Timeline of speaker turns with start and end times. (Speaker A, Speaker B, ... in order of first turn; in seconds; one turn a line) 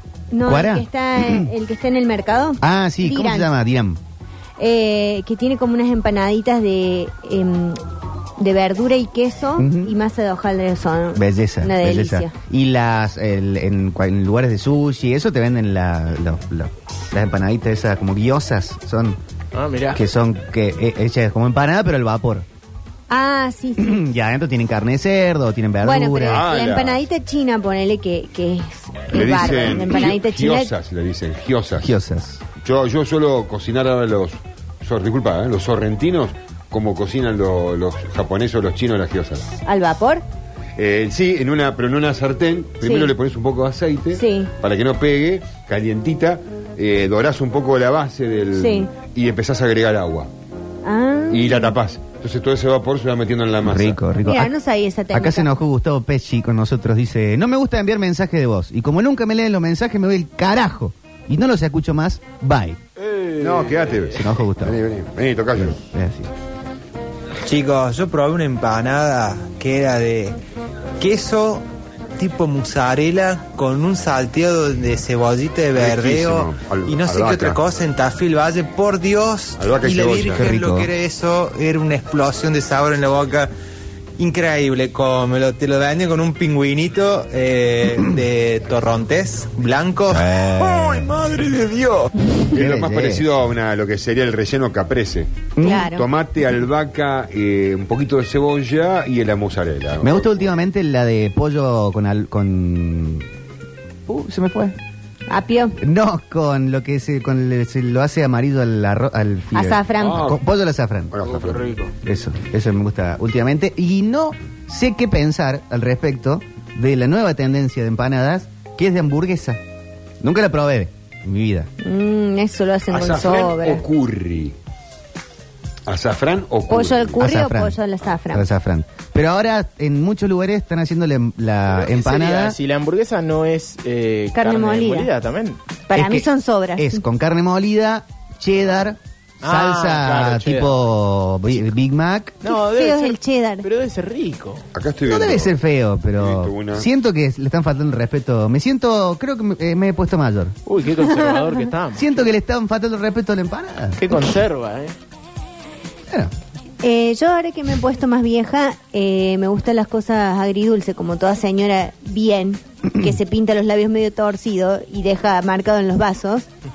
Speaker A: 0.3-3.5
Speaker B: 0.4-1.5
Speaker B: 2.6-4.0
Speaker A: 4.6-7.8
Speaker A: 8.4-12.3
Speaker B: 9.6-9.9
Speaker B: 11.1-19.2
Speaker C: 19.5-20.0
Speaker B: 19.9-22.4
Speaker A: 23.1-24.0
Speaker B: 23.8-26.4
Speaker A: 25.8-30.7
Speaker D: 26.3-27.0
Speaker D: 29.1-31.9
Speaker B: 31.8-32.4
Speaker D: 32.6-39.5
Speaker A: 39.6-40.2
Speaker D: 40.8-50.3
Speaker A: 42.8-43.1
Speaker A: 44.1-44.5
Speaker A: 48.6-48.9
Speaker A: 50.8-51.7
Speaker D: 51.3-54.0
Speaker B: 53.6-54.5
Speaker A: 54.2-55.5
Speaker B: 55.1-62.8
Speaker C: 63.0-64.2
Speaker D: 63.4-65.8
Speaker B: 64.2-64.8
Speaker B: 65.6-66.3
Speaker E: 67.4-70.4
Speaker E: 71.0-71.6
Speaker E: 72.2-83.5
Speaker D: 75.8-77.6
Speaker D: 79.6-80.6
Speaker B: 80.3-80.9
Speaker E: 84.2-90.3
Speaker B: 90.1-91.1
Speaker E: 91.0-92.0
Speaker D: 92.5-100.5
Speaker B: 92.5-93.3
Speaker B: 95.5-95.9
Speaker A: 95.6-96.0
Speaker B: 100.0-103.3
Speaker B: 104.1-104.8
Speaker A: 105.3-105.8
Speaker B: 105.8-111.1
Speaker A: 109.5-110.3
Speaker D: 110.0-110.4
Speaker D: 111.1-111.8
Speaker C: 111.3-111.8
Speaker B: 112.0-119.6
Speaker B: 120.2-121.7
Speaker A: 121.8-123.8
Speaker D: 122.9-124.5
Speaker D: 125.9-127.3
Speaker A: 126.7-128.5
Speaker B: 127.2-127.8
Speaker B: 128.3-132.6
Speaker C: 131.7-135.6
Speaker A: 134.3-135.1
Speaker A: 135.9-137.0
Speaker B: 135.9-136.2
Speaker B: 136.8-142.3
Speaker C: 139.4-140.8
Speaker C: 142.4-144.6
Speaker A: 142.4-143.7
Speaker D: 144.7-145.5
Speaker B: 145.1-150.5
Speaker D: 146.2-146.8
Speaker C: 150.7-152.2
Speaker B: 151.9-154.0
Speaker C: 154.0-154.9
Speaker A: 156.8-166.5